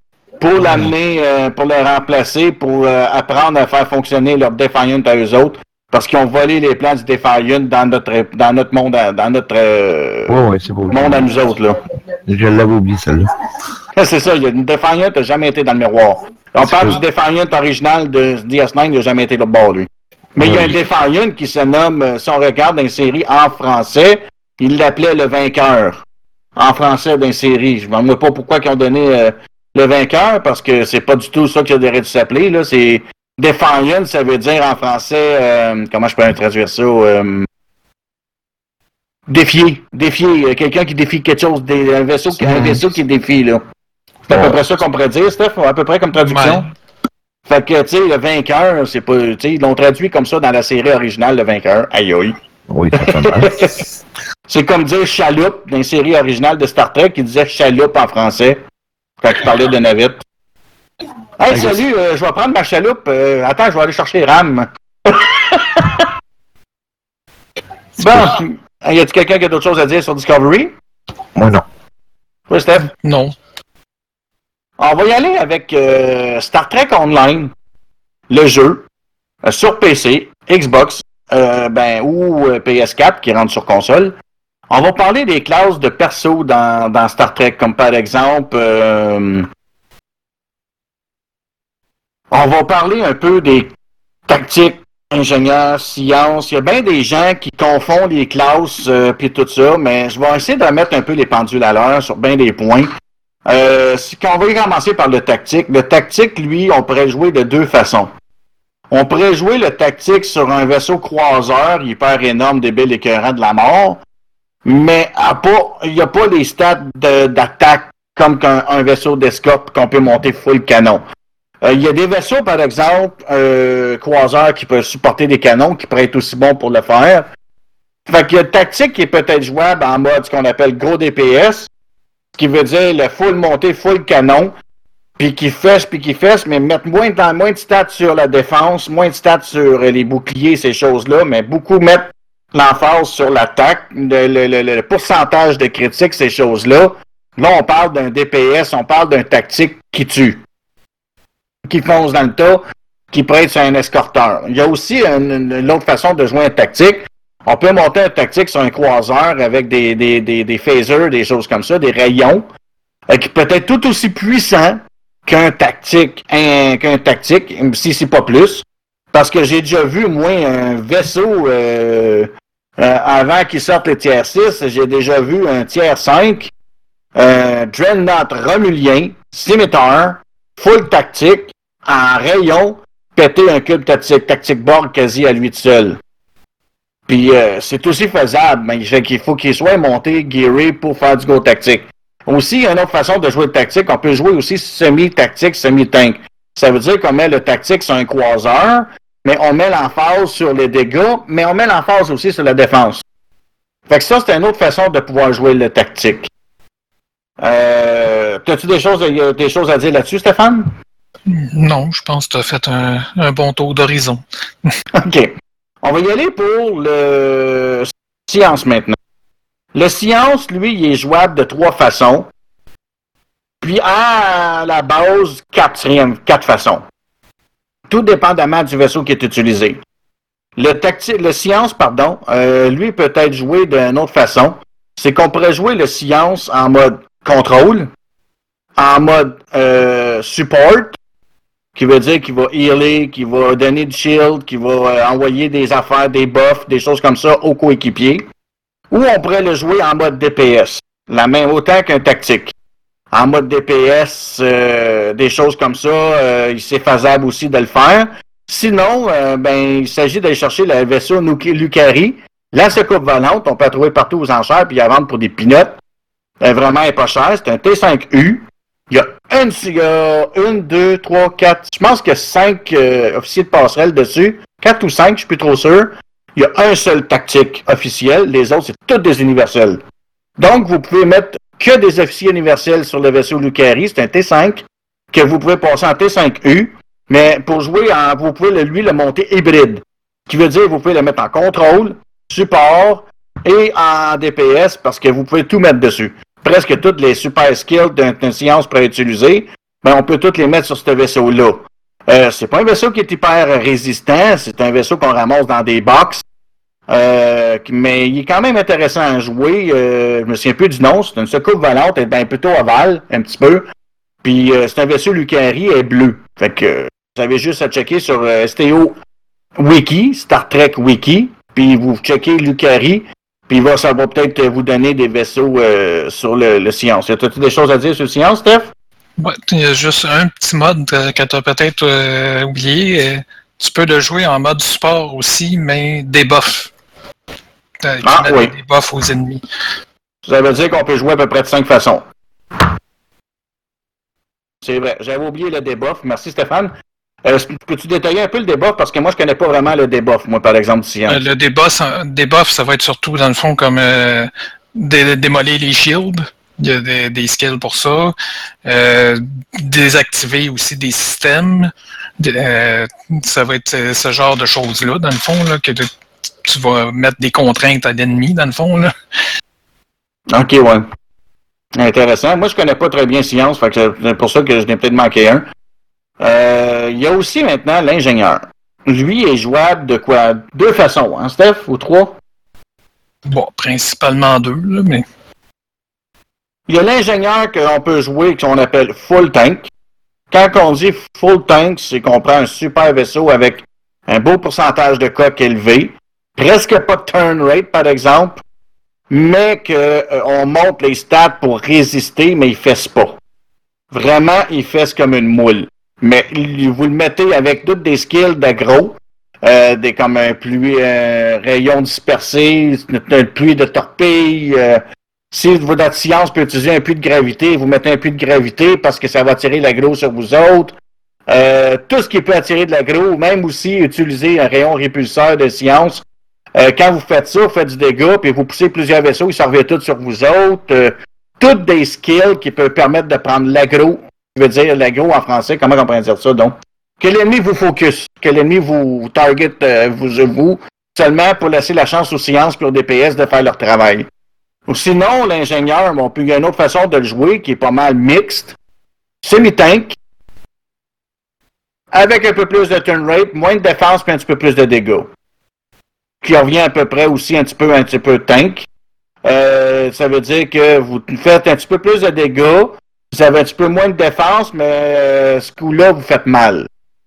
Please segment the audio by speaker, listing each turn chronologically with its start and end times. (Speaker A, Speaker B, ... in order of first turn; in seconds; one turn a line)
Speaker A: 0.4-10.3
Speaker B: 0.6-0.9
Speaker B: 10.3-11.3
Speaker A: 10.9-11.8
Speaker B: 12.3-13.3
Speaker A: 14.0-26.0
Speaker B: 16.6-17.0
Speaker B: 20.4-20.8
Speaker A: 26.6-37.5
Speaker A: 39.3-43.6
Speaker B: 42.4-42.8
Speaker A: 44.3-46.7
Speaker B: 44.3-44.6
Speaker C: 46.2-46.6
Speaker A: 47.5-52.4
Speaker B: 52.7-53.6
Speaker A: 53.0-53.8
Speaker A: 54.5-58.6
Speaker A: 59.2-60.2
Speaker A: 61.4-66.1
Speaker B: 61.5-61.8
Speaker A: 68.0-70.7
Speaker B: 71.3-71.7
Speaker A: 72.5-72.9
Speaker C: 72.9-73.3
Speaker A: 74.8-77.5
Speaker A: 78.3-78.8
Speaker A: 79.4-84.1
Speaker A: 84.7-89.5
Speaker A: 92.3-93.7
Speaker A: 94.3-102.9
Speaker A: 103.5-108.1
Speaker A: 108.9-114.0
Speaker A: 114.7-121.0
Speaker A: 121.6-127.3
Speaker A: 128.1-131.7
Speaker A: 132.4-134.5
Speaker A: 135.2-150.4
Speaker A: 151.7-162.4
Speaker A: 163.1-176.5
Speaker A: 177.2-186.0
Speaker A: 187.1-203.0
Speaker A: 203.9-206.3
Speaker A: 207.4-210.7
Speaker C: 211.3-214.7
Speaker A: 215.0-219.0
Speaker A: 219.7-222.3
Speaker A: 223.6-226.8
Speaker A: 227.9-229.8
Speaker A: 230.6-237.9
Speaker A: 238.8-241.0
Speaker A: 241.8-248.2
Speaker A: 248.9-252.5
Speaker A: 253.1-265.8
Speaker A: 266.4-279.8
Speaker A: 280.4-306.2
Speaker A: 306.9-313.7
Speaker A: 314.2-319.0
Speaker A: 319.6-328.7
Speaker C: 329.2-336.7
Speaker C: 337.8-339.4
Speaker A: 338.0-338.5
Speaker A: 340.3-342.0
Speaker A: 344.6-346.7
Speaker A: 347.2-351.2
Speaker C: 351.1-365.9
Speaker C: 366.4-368.9
Speaker A: 370.3-370.9
Speaker A: 371.8-375.4
Speaker A: 376.2-382.2
Speaker C: 383.3-385.1
Speaker A: 386.7-389.7
Speaker A: 390.3-398.4
Speaker A: 399.1-403.2
Speaker A: 403.9-420.8
Speaker A: 421.3-426.0
Speaker A: 426.6-444.1
Speaker A: 444.7-448.5
Speaker A: 449.2-449.9
Speaker A: 451.9-455.1
Speaker A: 456.2-458.7
Speaker A: 459.2-466.7